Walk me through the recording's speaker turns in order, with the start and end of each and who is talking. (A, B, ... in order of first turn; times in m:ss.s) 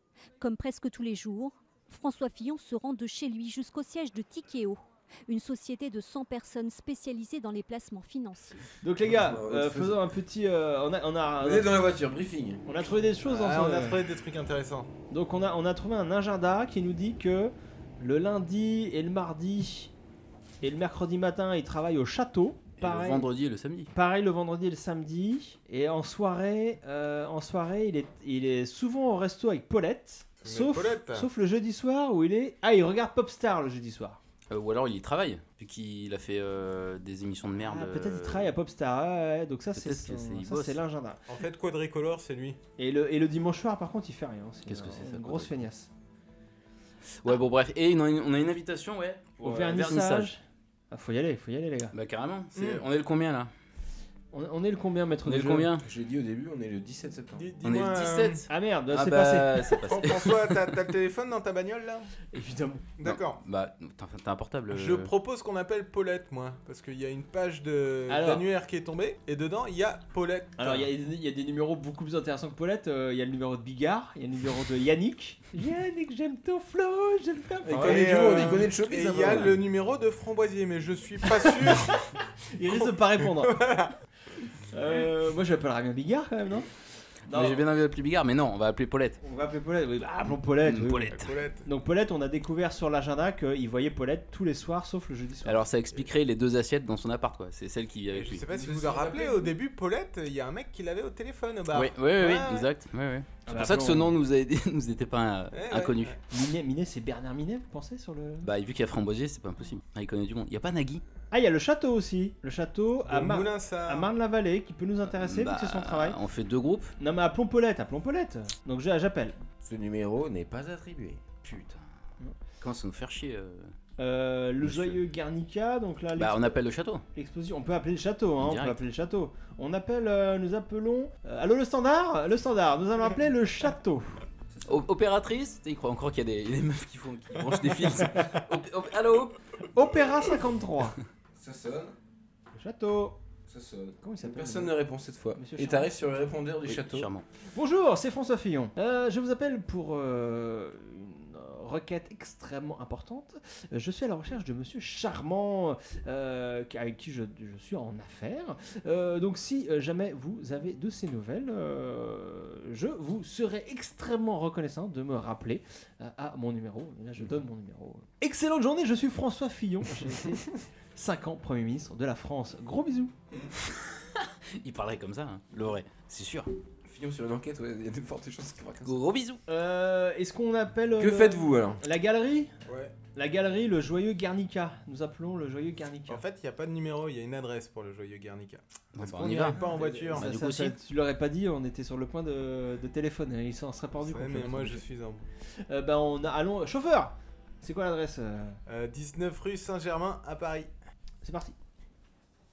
0:00.4-0:08.6 A
0:08.8-0:11.8 B
0:09.0-0:10.1 C
0:11.4-0:12.6 C
0:12.6-0:14.0 B
0:13.2-0:14.9 D
0:15.1-0:19.9 B
0:20.6-0:23.3 B
0:22.8-0:23.9 E
0:23.9-0:34.2 B
0:30.4-0:31.3 D
0:34.5-0:38.5 E
0:37.6-0:41.2 B
0:39.8-0:40.8 E
0:41.3-0:42.6 D
0:42.8-0:45.9 B
0:44.7-0:45.6 E
0:47.2-0:50.3 E
0:49.4-0:51.9 B
0:51.9-0:53.5 E
0:52.6-0:52.8 D
0:54.3-0:55.7 B
0:55.3-0:55.9 E
0:55.8-0:57.5 C
0:57.3-0:58.4 D
0:57.6-1:00.7 E
0:58.5-0:59.7 B
0:59.8-1:02.1 D
1:02.3-1:02.9 B
1:03.0-1:03.4 D
1:03.0-1:05.1 E
1:04.7-1:10.9 D
1:08.1-1:08.4 B
1:10.6-1:18.6 B
1:17.6-1:19.6 C
1:17.7-1:22.1 D
1:21.5-1:21.9 B
1:22.5-1:23.7 B
1:22.7-1:23.9 D
1:24.7-1:26.7 B
1:27.3-1:27.6 B
1:27.3-1:29.2 E
1:29.2-1:31.1 B
1:30.6-1:31.4 E
1:31.1-1:31.7 D
1:31.6-1:35.6 B
1:35.4-1:38.4 E
1:38.1-1:42.7 D
1:38.5-1:39.6 C
1:41.7-1:46.2 E
1:43.5-1:44.2 B
1:45.5-1:46.2 D
1:46.3-1:48.5 B
1:48.4-1:51.0 E
1:51.3-1:56.2 B
1:53.1-1:54.1 D
1:55.1-1:57.0 E
1:57.0-1:59.4 B
1:59.6-2:01.2 C
2:01.4-2:01.9 E
2:02.6-2:03.7 E
2:04.0-2:06.6 B
2:04.6-2:05.0 E
2:06.2-2:07.0 E
2:07.2-2:14.2 B
2:08.4-2:08.8 E
2:14.5-2:14.9 C
2:14.6-2:19.4 E
2:19.7-2:21.0 B
2:21.4-2:22.0 C
2:22.5-2:23.2 B
2:23.5-2:27.1 C
2:24.0-2:24.7 B
2:25.4-2:25.9 B
2:26.7-2:27.2 E
2:27.5-2:50.4 B
2:51.0-2:53.1 B
2:54.0-2:56.5 E
2:56.9-2:59.0 C
2:58.8-2:59.4 E
2:59.5-3:02.5 B
3:01.0-3:01.8 C
3:02.7-3:03.0 D
3:03.1-3:06.2 B
3:06.1-3:10.3 D
3:09.0-3:09.6 E
3:09.6-3:10.0 C
3:09.9-3:14.8 B
3:10.1-3:10.8 E
3:14.0-3:15.3 D
3:15.6-3:18.6 B
3:18.7-3:20.7 D
3:21.2-3:21.5 B